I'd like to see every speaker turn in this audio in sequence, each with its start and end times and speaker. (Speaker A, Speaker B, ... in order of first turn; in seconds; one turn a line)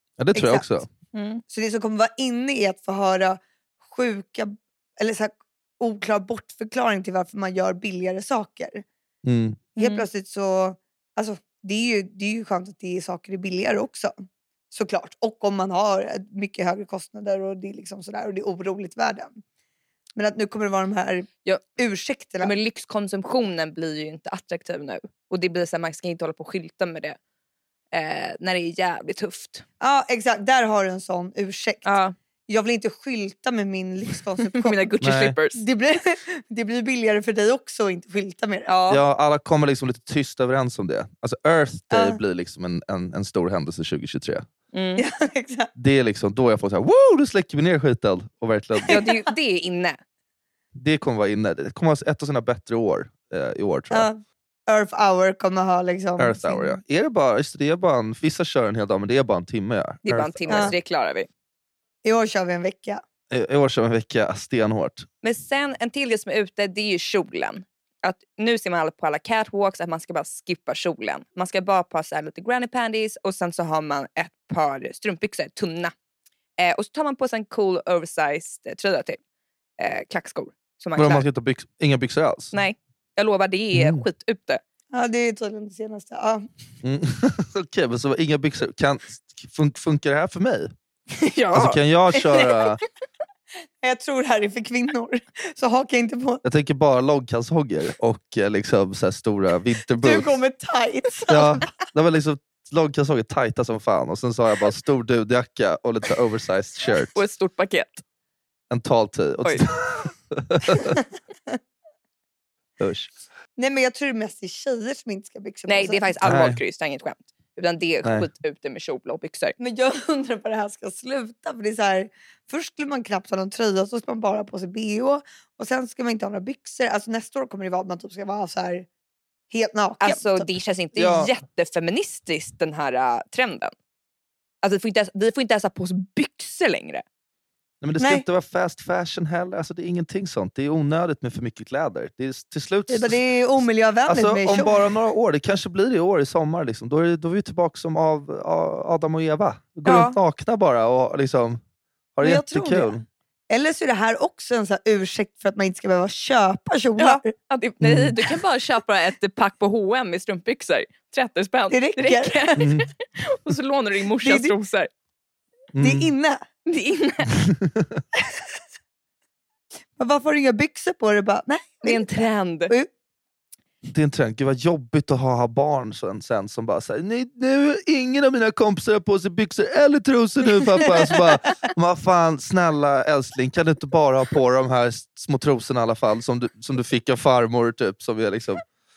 Speaker A: 0.2-0.9
Speaker B: 0.3-0.7
Speaker C: 1.1-1.4
Speaker B: 1.5-8.8
Speaker A: 9.2-9.6
Speaker B: 9.8-14.1
Speaker C: 9.8-10.1
Speaker B: 14.7-19.4
Speaker B: 20.2-22.5
Speaker C: 22.4-27.2
Speaker C: 27.9-29.6
Speaker B: 29.8-31.9
Speaker C: 31.9-32.1
Speaker B: 32.5-34.8
Speaker C: 34.5-35.6
Speaker A: 35.0-35.4
Speaker B: 35.5-38.7
Speaker C: 38.7-39.0
Speaker A: 38.9-44.5
Speaker B: 41.9-42.2
Speaker C: 44.7-45.0
Speaker B: 45.0-45.7
Speaker A: 45.8-49.0
Speaker B: 48.9-49.2
Speaker C: 48.9-50.0
Speaker A: 50.7-54.1
Speaker B: 53.9-56.8
Speaker A: 56.2-60.8
Speaker C: 60.0-61.3
Speaker B: 62.0-63.0
Speaker A: 63.3-65.1
Speaker C: 65.2-75.9
Speaker C: 76.6-79.2
Speaker C: 79.8-81.3
Speaker A: 81.0-82.5
Speaker C: 82.5-84.6
Speaker A: 83.7-84.0
Speaker B: 84.9-86.5
Speaker A: 86.8-90.7
Speaker C: 91.1-92.5
Speaker A: 91.5-92.8
Speaker B: 93.8-96.4
Speaker A: 96.4-100.3
Speaker B: 100.0-101.7
Speaker A: 101.3-107.1
Speaker C: 107.1-108.0
Speaker A: 108.7-111.0
Speaker A: 112.8-113.1
Speaker B: 113.6-116.1
Speaker C: 115.7-119.5
Speaker A: 116.2-116.6
Speaker B: 119.6-128.9
Speaker B: 129.5-130.5
Speaker C: 130.0-133.7
Speaker A: 131.0-131.3
Speaker C: 134.6-137.0
Speaker A: 137.8-143.2
Speaker B: 138.0-138.2
Speaker B: 142.9-144.8
Speaker A: 144.1-151.6
Speaker C: 149.8-150.2
Speaker A: 152.2-153.0
Speaker B: 152.2-153.0
Speaker B: 153.5-157.3
Speaker C: 157.0-164.9
Speaker A: 157.8-158.1
Speaker B: 161.7-162.7
Speaker A: 162.6-162.8
Speaker B: 164.2-164.5
Speaker A: 165.8-166.1
Speaker B: 165.8-166.4
Speaker C: 166.7-167.4
Speaker A: 167.5-168.0
Speaker B: 170.0-172.9
Speaker C: 171.8-172.7
Speaker A: 173.9-188.6